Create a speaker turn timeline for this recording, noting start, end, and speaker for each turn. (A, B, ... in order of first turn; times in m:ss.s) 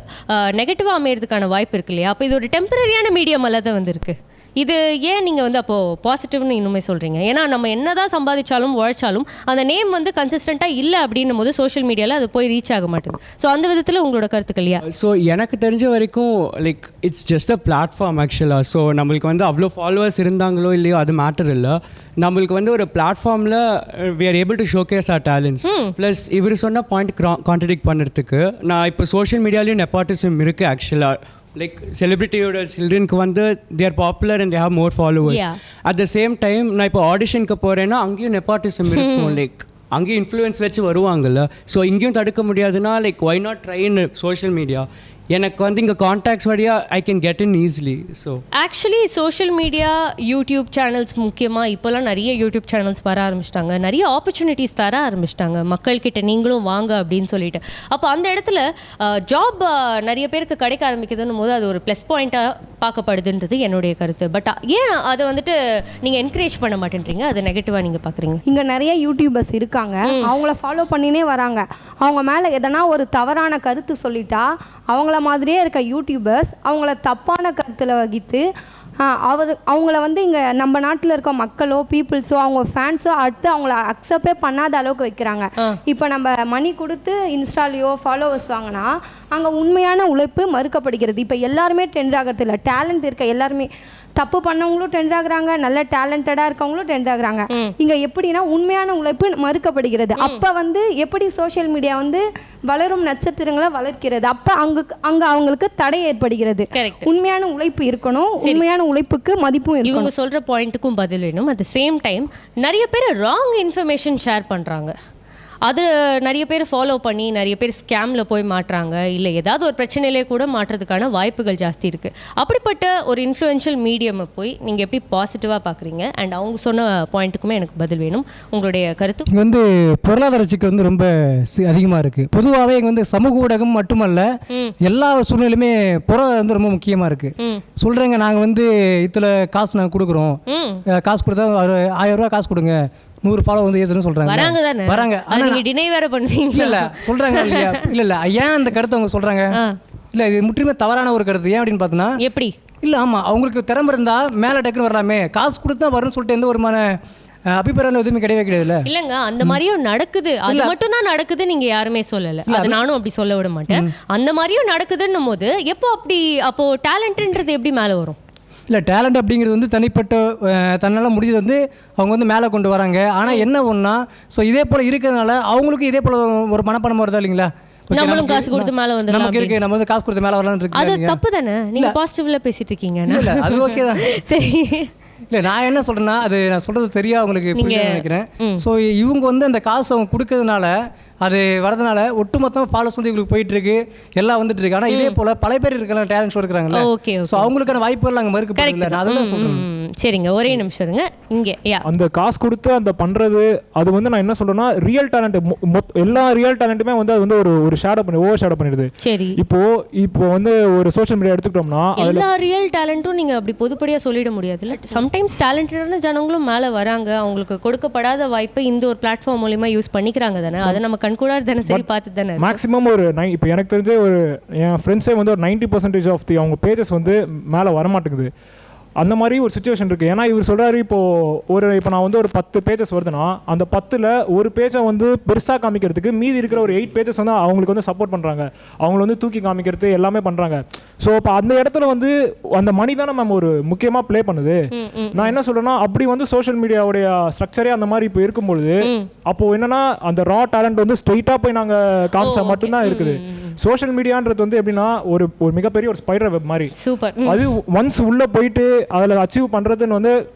0:00.3-0:14.8 A
0:14.8-0:48.4 B
0:25.6-0:25.9 A
0:35.2-0:35.6 A
0:38.9-0:39.4 A
0:48.5-1:08.4 A
1:08.5-1:18.4 C
1:10.0-1:10.3 A
1:19.0-1:50.1 C
1:40.2-1:40.4 A
1:46.7-1:47.1 A
1:49.8-1:54.9 A
1:55.6-2:09.3 A
2:09.3-2:14.3 D
2:14.8-2:20.4 D
2:20.5-2:20.8 A
2:20.9-2:25.6 D
2:24.2-2:27.8 A
2:26.5-2:29.6 D
2:30.1-2:32.2 D
2:32.2-2:32.5 A
2:32.8-2:37.0 D
2:37.5-2:38.8 D
2:38.8-2:48.2 A
2:40.4-2:40.7 D
2:42.5-2:42.8 D
2:48.7-3:01.2 D
2:57.9-2:59.6 A
3:00.7-3:04.9 A
3:03.0-3:04.1 D
3:05.3-3:19.7 D
3:07.5-3:08.6 A
3:14.9-3:15.2 A
3:16.7-3:17.5 A
3:18.6-3:21.8 A
3:21.9-3:32.2 E
3:29.0-3:29.4 A
3:32.0-3:42.6 A
3:42.4-3:48.3 E
3:49.0-4:04.6 E
4:04.7-4:05.4 A
4:05.2-4:16.7 E
4:08.8-4:09.1 A
4:12.2-4:13.5 A
4:16.8-4:17.4 A
4:17.2-4:20.1 E